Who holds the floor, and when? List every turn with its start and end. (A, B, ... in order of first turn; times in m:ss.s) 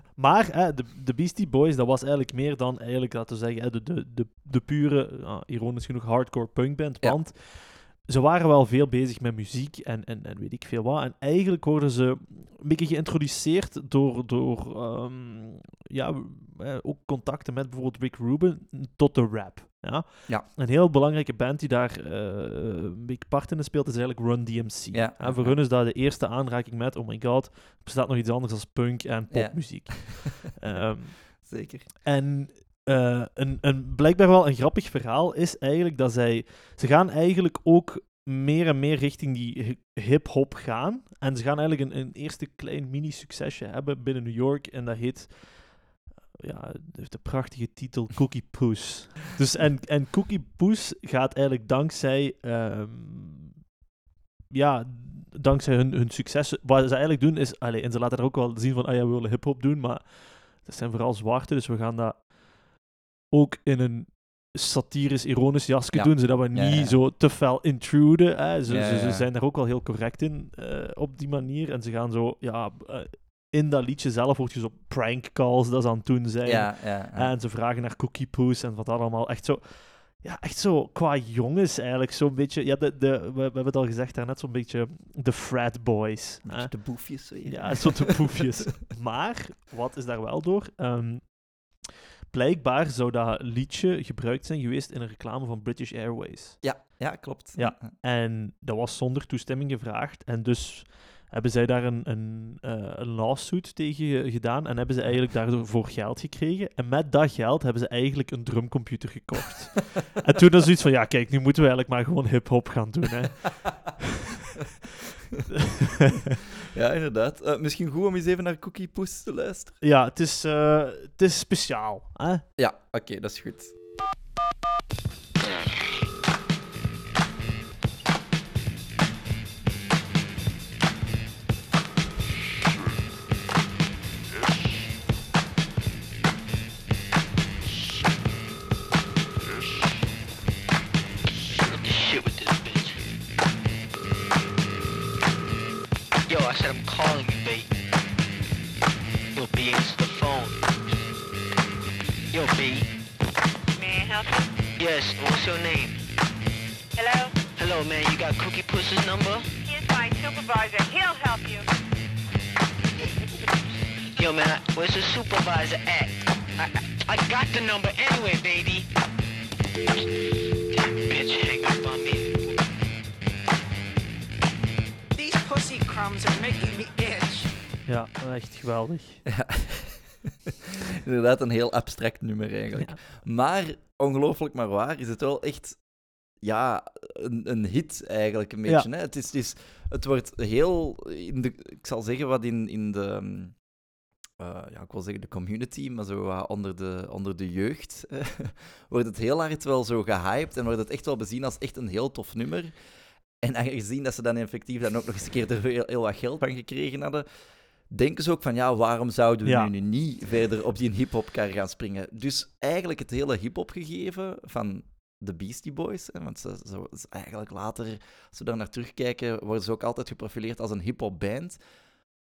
0:00.1-0:31.5 A
0:24.9-0:25.6 B
0:29.3-0:31.9 B
0:32.0-0:53.6 A
0:54.5-1:02.8 A
1:03.3-1:36.8 A
1:05.9-1:07.0 B
1:08.6-1:09.2 B
1:16.4-1:17.3 B
1:26.4-1:28.4 B
1:36.6-1:37.8 B
1:37.6-1:53.9 A
1:56.7-1:59.8 B
1:59.8-2:02.4 A
2:02.6-2:03.7 B
2:21.6-2:23.0 C
2:26.3-2:27.7 C
2:29.4-2:30.6 C
2:32.3-2:32.9 C
2:33.8-2:34.5 D
2:34.8-2:36.0 C
2:37.0-2:37.4 D
2:37.5-2:39.5 C
2:39.6-2:41.6 D
2:44.2-2:48.8 C
2:50.7-2:52.5 C
2:55.1-2:57.5 E
2:57.8-2:59.2 A
2:59.3-3:00.3 B
3:00.9-3:05.8 B
3:06.4-3:13.6 B
3:14.4-3:22.8 B
3:23.4-3:27.2 B
3:27.9-3:41.6 B
3:29.4-3:29.7 A